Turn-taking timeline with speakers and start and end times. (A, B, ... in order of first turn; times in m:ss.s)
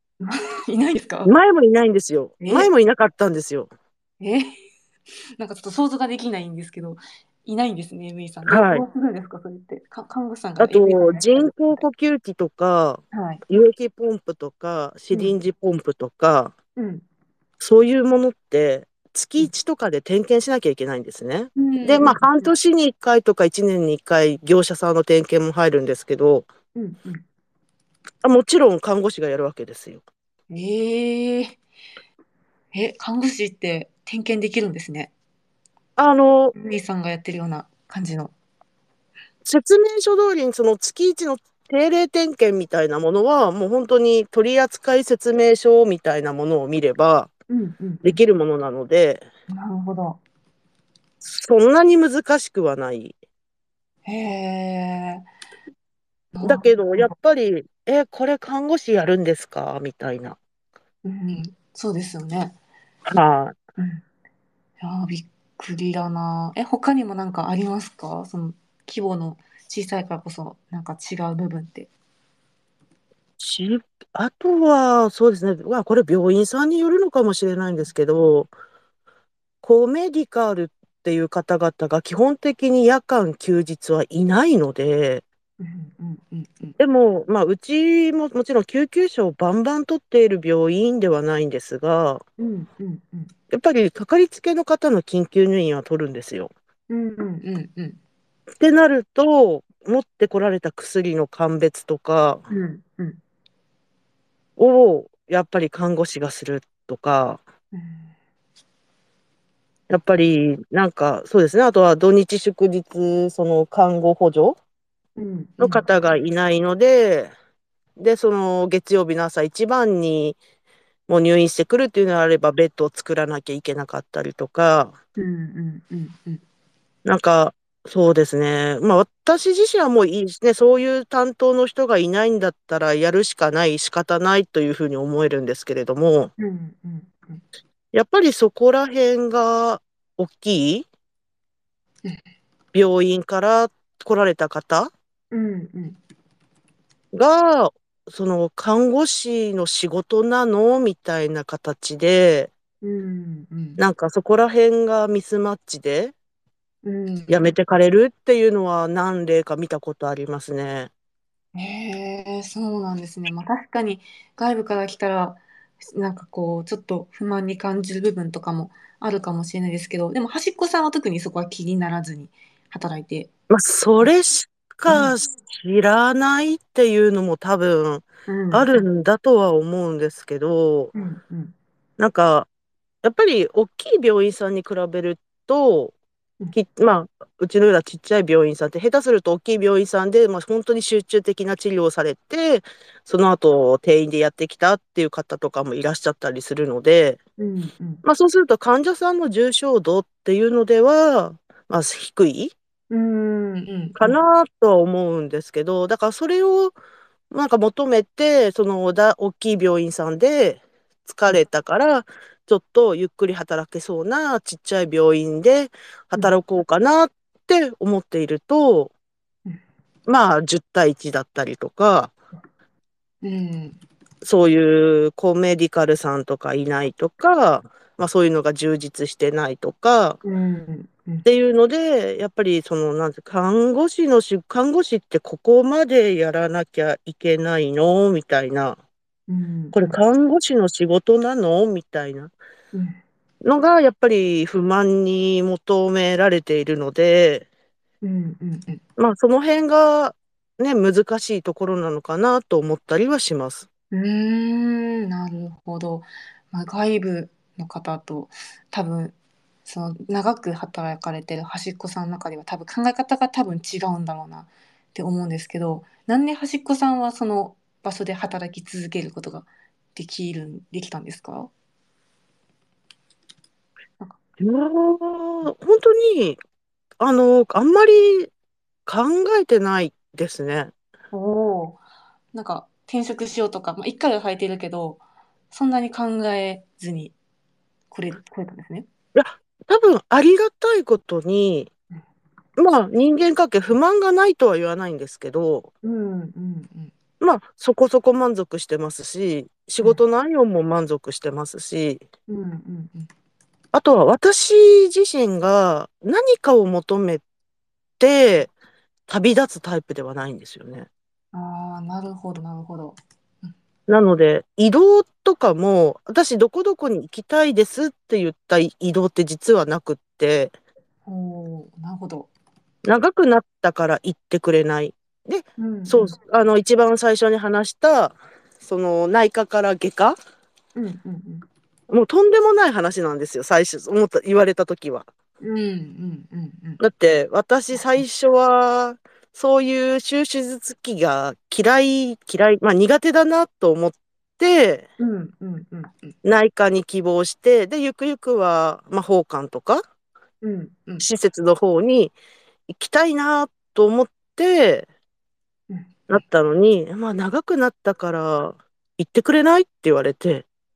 0:00.2-0:01.3 A
0:01.2-0:03.7 B
0:02.4-0:02.7 A
0:04.2-0:04.6 A
0:05.4-0:11.8 A
0:08.5-0:08.8 B
0:10.6-0:16.5 B
0:13.1-0:13.4 A
0:16.8-0:17.0 A
0:17.6-0:26.4 B
0:21.6-0:22.5 A
0:26.7-0:27.2 A
0:28.2-0:30.0 B
0:30.5-0:31.6 A
0:32.7-0:35.1 A
0:36.0-0:36.5 B
0:36.5-0:38.3 A
0:39.4-0:47.3 B
0:47.5-0:48.2 A
0:48.0-0:49.2 B
0:49.5-0:50.2 A
0:51.2-0:53.1 B
0:54.0-0:55.2 A
0:56.3-0:57.1 A
0:56.4-1:00.4 B
1:01.0-1:02.5 A
1:03.1-1:03.6 B
1:03.8-1:04.0 A
1:04.8-1:11.9 A
1:13.4-1:18.5 B
1:19.6-1:25.2 B
1:25.6-1:26.8 A
1:26.8-1:32.2 B
1:32.4-1:33.3 A
1:33.5-1:36.5 B
1:36.9-1:38.0 A
1:38.6-1:42.4 B
1:42.5-1:43.2 A
1:44.6-1:47.4 B
1:47.7-1:48.1 A
1:49.9-1:54.6 B
1:55.2-1:55.8 A
1:55.6-1:57.3 B
1:58.0-2:00.4 B
2:01.1-2:04.9 B
2:05.2-2:06.4 A
2:07.0-2:16.3 B
2:16.4-2:17.4 A
2:17.9-2:20.9 B
2:22.7-2:24.9 B
2:25.3-2:26.0 A
2:27.1-2:32.5 B
2:32.8-2:33.8 A
2:33.8-2:36.1 B
2:36.8-2:37.5 A
2:37.3-2:40.9 B
2:41.5-2:53.3 A
2:53.5-3:00.9 B
2:54.9-2:55.1 A
2:58.3-2:58.8 A
3:00.9-3:01.5 A
3:02.0-3:02.5 B
3:03.0-3:05.9 B
3:06.5-3:17.2 B
3:17.4-3:18.0 A
3:18.0-3:22.5 B
3:22.9-3:24.2 A
3:24.0-3:26.8 B
3:27.3-3:38.9 B
3:40.1-3:42.1 B
3:43.2-3:43.8 A
3:44.2-3:50.2 B
3:50.2-3:51.2 A
3:51.2-3:58.8 B
3:59.3-4:00.0 A
3:59.7-4:02.3 B
4:03.4-4:07.4 B
4:08.0-4:08.8 A
4:09.0-4:13.7 B
4:13.9-4:19.1 A
4:19.6-4:31.5 A
4:34.4-4:36.4 B
4:37.0-4:38.3 B
4:38.8-4:40.7 B
4:41.1-4:41.8 A
4:42.3-4:47.1 A
4:47.9-4:48.9 A
4:49.1-4:51.7 B
4:52.6-4:55.7 B
4:55.8-4:56.9 A
4:57.2-5:02.0 B
5:02.3-5:03.1 A
5:03.7-5:07.2 B
5:08.0-5:08.5 B
5:09.1-5:10.9 B
5:11.3-5:13.5 A
5:13.9-5:20.5 B
5:21.0-5:22.3 A
5:22.8-5:30.2 B
5:25.6-5:26.2 A
5:30.8-5:31.4 A
5:31.9-5:35.0 B
5:35.4-5:36.8 A
5:36.8-5:44.8 B
5:37.7-5:38.0 A
5:45.0-5:46.1 A
5:46.2-5:49.8 B
5:50.4-5:51.1 A
5:51.0-5:52.1 B
5:52.7-5:54.9 B
5:55.7-5:56.1 A
5:56.1-6:00.4 B